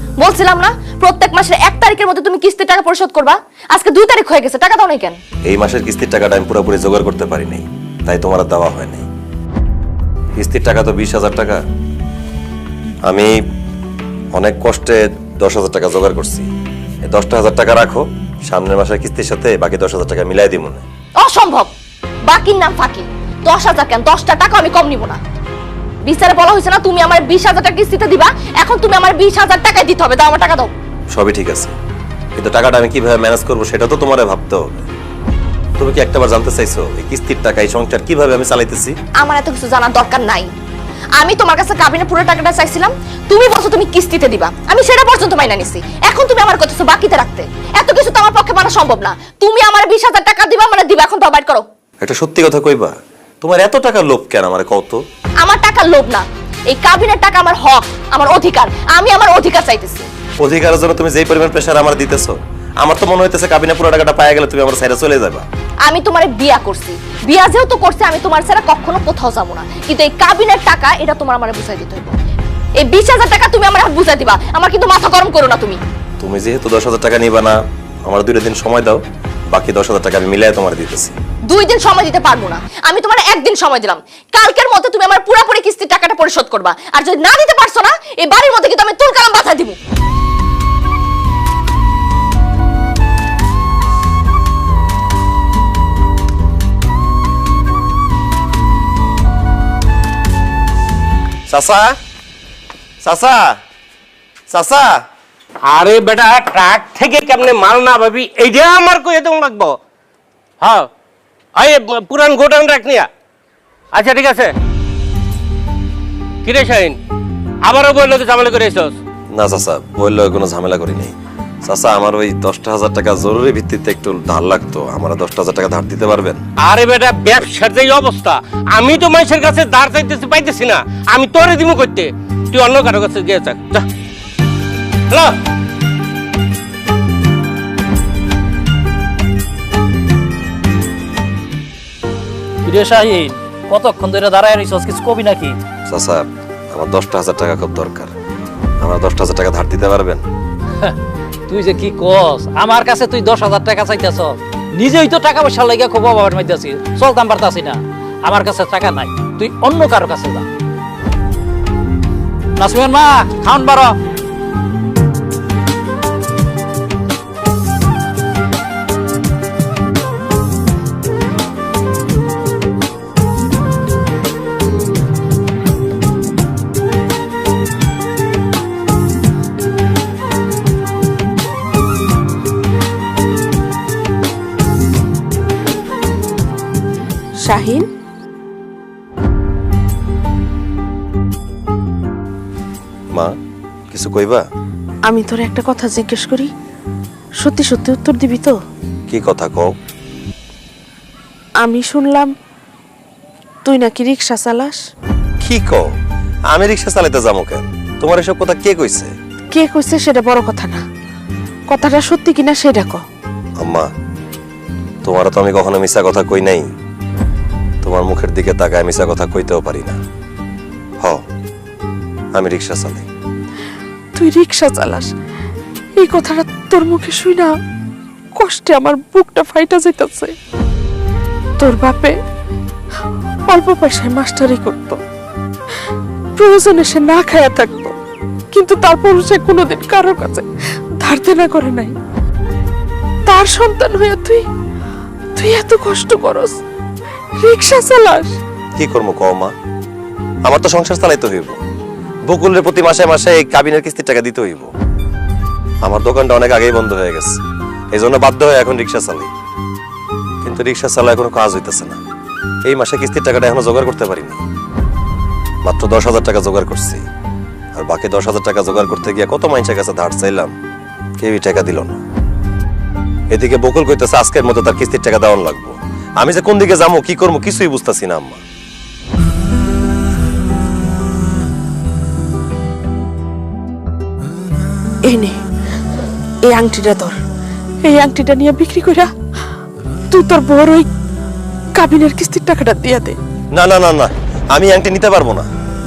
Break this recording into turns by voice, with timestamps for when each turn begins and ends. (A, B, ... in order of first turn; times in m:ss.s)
0:00.2-0:05.2 A
0:05.4-0:09.1 B
0:10.4-0:11.6 B
0:13.0-0:13.4 B
0:14.3-0:16.5 B
0:17.0-0:20.8 B
0:21.2-0:21.7 A
0:22.3-0:25.2 A
0:26.0-0:30.7 A
0:31.1-0:31.7 B
0:32.4-0:34.9 B
0:35.8-0:39.0 B
0:39.2-0:40.5 A
0:41.2-0:51.6 A
0:52.0-0:55.0 B
0:55.4-1:00.1 A
1:00.4-1:05.4 B
1:05.8-1:12.2 A
1:12.8-1:15.8 A
1:16.2-1:19.0 B
1:19.5-1:21.1 B
1:21.5-1:29.8 A
1:41.5-1:41.9 B
1:43.0-1:43.6 B
1:44.5-1:45.0 B
1:45.7-1:49.8 C
1:50.6-1:50.9 C
1:51.6-1:53.1 C
1:53.9-1:54.5 C
1:56.4-1:57.0 C
1:57.6-1:59.0 C
1:59.3-2:06.4 B
2:06.6-2:13.9 C
2:15.1-2:15.4 C
2:22.6-2:25.6 D
2:25.9-2:28.1 B
2:28.8-2:30.2 B
2:31.5-2:40.4 D
2:42.6-2:44.0 D
3:07.4-3:07.9 E
3:13.9-3:14.5 B
3:15.1-3:16.5 E
3:17.4-3:18.6 E
3:19.1-3:19.7 B
3:21.6-3:22.3 E
3:23.6-3:24.8 E
3:25.4-3:25.9 B
3:26.5-3:29.1 B
3:29.5-3:30.8 E
3:31.7-3:33.0 E
3:33.6-3:33.9 B
3:35.0-3:36.7 B
3:37.8-3:40.0 B
3:42.4-3:43.1 B
3:44.2-3:45.1 E
3:46.0-3:47.5 E
3:48.4-3:50.3 E
3:51.6-3:52.2 E
3:53.5-3:55.0 E
3:56.4-3:58.0 E
3:58.5-4:00.4 E
4:01.0-4:01.9 E
4:03.3-4:04.4 E
4:05.4-4:06.6 E
4:07.4-4:08.4 E
4:08.8-4:09.5 B
4:10.5-4:11.6 B
4:12.3-4:14.7 B
4:15.8-4:17.4 B
4:17.9-4:19.3 B
4:20.4-4:22.0 B
4:22.6-4:24.4 B
4:25.6-4:27.0 B
4:27.8-4:30.5 B
4:31.2-4:32.0 B
4:33.3-4:38.4 B
4:45.0-4:45.4 E
4:46.5-4:47.2 E
4:47.8-4:49.1 E
4:50.1-4:50.9 E
4:51.8-4:53.2 E
4:53.5-4:55.5 B